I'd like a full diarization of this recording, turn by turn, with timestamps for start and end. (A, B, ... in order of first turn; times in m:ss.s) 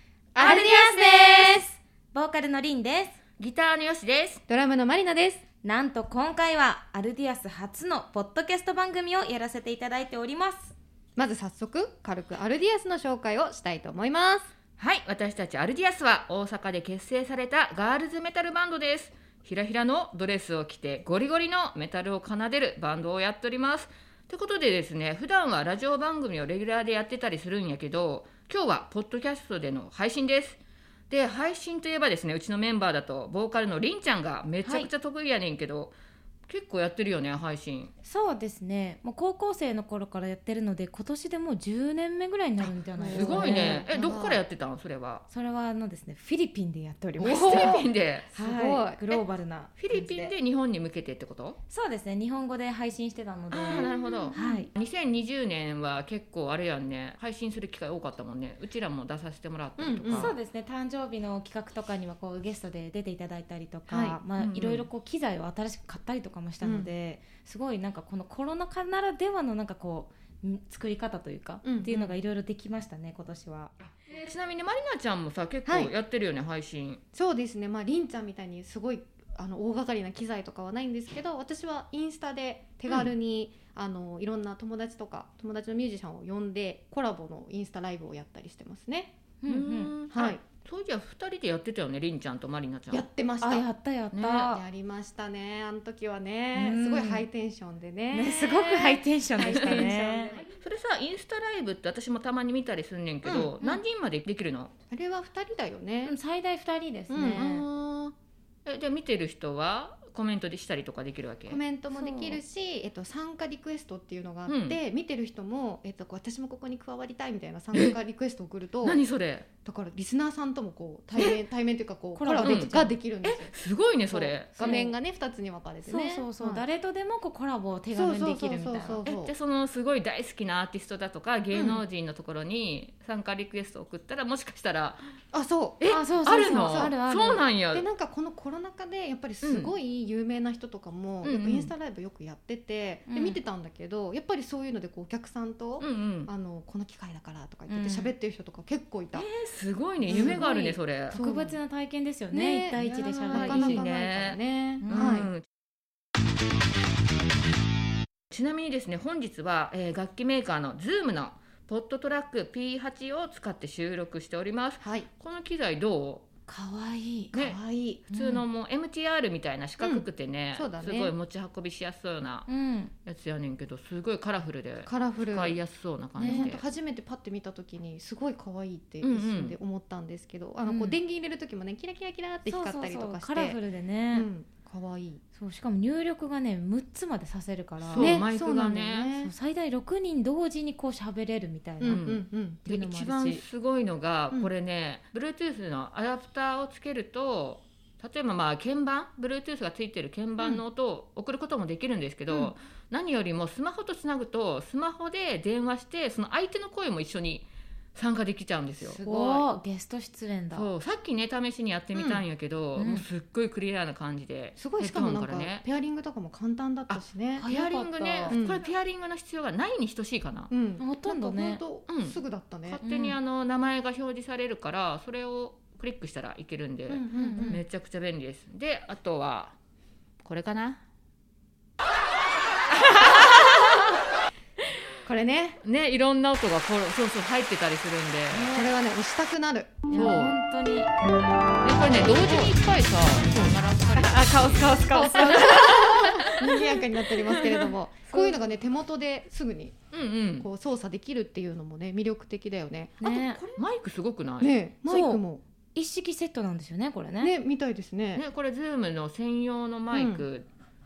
0:00.3-0:00.6 A
0:00.4-0:01.6 B
0:00.4-0:03.2 C
0:03.4-0:04.4 A
0:04.5-0:05.4 B
0:05.6-0:10.7 C
0:11.2-0:14.5 B
0:14.8-0:35.9 A
0:34.6-0:34.9 C
0:36.5-0:37.9 A
0:38.0-0:44.1 C
0:42.6-0:44.4 B
0:43.1-0:45.2 A
0:45.3-0:47.8 C
0:47.2-0:49.2 B
0:47.2-0:48.3 A
0:48.3-0:50.3 C
0:49.8-0:51.6 A
0:51.7-0:54.7 C
0:53.5-1:00.4 A
0:53.7-0:54.6 B
0:59.8-1:00.3 B
1:00.1-1:13.7 C
1:03.9-1:04.2 B
1:04.4-1:04.9 A
1:06.6-1:06.9 B
1:11.6-1:12.2 B
1:13.9-1:17.0 A
1:15.6-1:15.9 B
1:17.1-1:29.1 B
1:29.4-1:29.9 C
1:29.5-1:33.0 A
1:30.1-1:30.4 B
1:32.9-1:33.7 B
1:33.4-1:34.6 C
1:34.1-1:34.5 A
1:34.5-1:40.5 B
1:36.5-1:37.3 C
1:38.1-1:40.4 C
1:39.4-1:39.9 A
1:40.6-1:44.7 A
1:43.2-1:43.6 B
1:44.9-1:46.1 B
1:46.0-1:47.6 C
1:47.1-1:47.5 B
1:47.3-1:48.1 A
1:48.6-1:51.6 A
1:51.5-1:59.0 B
1:51.9-1:52.4 C
1:54.5-1:54.8 A
1:58.8-1:59.5 A
1:59.6-2:03.5 B
2:01.2-2:01.4 A
2:02.1-2:03.0 C
2:02.4-2:04.8 A
2:04.1-2:06.6 B
2:04.6-2:04.9 C
2:05.8-2:09.0 C
2:07.9-2:09.3 B
2:09.0-2:15.0 A
2:11.5-2:11.8 B
2:15.3-2:15.8 B
2:15.8-2:17.9 A
2:15.8-2:17.4 C
2:16.5-2:17.0 B
2:17.7-2:29.3 B
2:19.4-2:19.7 A
2:21.2-2:21.7 A
2:23.1-2:23.4 C
2:25.8-2:26.3 A
2:27.7-2:28.1 C
2:29.4-2:31.1 A
2:30.1-2:30.5 B
2:30.1-2:33.8 C
2:31.1-2:31.6 B
2:32.3-2:35.3 B
2:33.3-2:35.4 A
2:34.8-2:35.2 C
2:38.3-2:46.2 A
2:44.8-2:45.1 B
2:46.5-2:47.3 C
2:47.3-2:47.6 A
2:47.3-2:48.0 B
2:48.1-2:48.4 C
2:48.1-2:52.5 A
2:49.8-2:51.1 B
2:52.5-2:52.9 C
2:53.0-2:56.6 A
2:54.8-2:55.6 B
2:56.1-3:03.6 B
2:56.2-2:56.5 C
2:59.0-2:59.6 A
3:00.6-3:01.0 C
3:02.4-3:04.3 C
3:04.1-3:05.2 B
3:05.3-3:08.2 C
3:07.8-3:09.1 A
3:08.0-3:09.3 B
3:09.2-3:12.1 C
3:11.8-3:12.6 B
3:11.9-3:29.0 A
3:12.6-3:13.4 C
3:28.9-3:29.4 B
3:29.0-3:30.7 C
3:30.5-3:35.6 A
3:31.9-3:32.2 B
3:32.8-3:33.0 C
3:34.6-3:37.4 B
3:36.9-3:40.5 A
3:37.4-3:38.4 C
3:38.3-3:38.6 B
3:40.5-3:42.8 B
3:40.8-3:41.6 C
3:41.9-3:49.5 A
3:42.8-3:43.2 C
3:46.9-3:47.6 B
3:47.2-3:47.6 C
3:50.2-3:50.8 A
3:55.0-3:55.6 B
3:55.6-3:58.5 A
3:58.3-3:58.7 C
3:58.5-4:00.1 B
3:59.9-4:00.9 C
3:59.9-4:00.4 A
4:01.6-4:04.8 A
4:02.2-4:02.5 C
4:04.0-4:06.7 C
4:04.8-4:09.8 B
4:07.3-4:08.4 C
4:09.9-4:10.5 A
4:10.4-4:13.0 B
4:13.0-4:13.4 C
4:13.0-4:14.5 A
4:14.4-4:15.4 B
4:14.8-4:15.2 C
4:15.7-4:17.3 C
4:17.2-4:18.2 B
4:18.1-4:20.4 A
4:19.9-4:20.3 B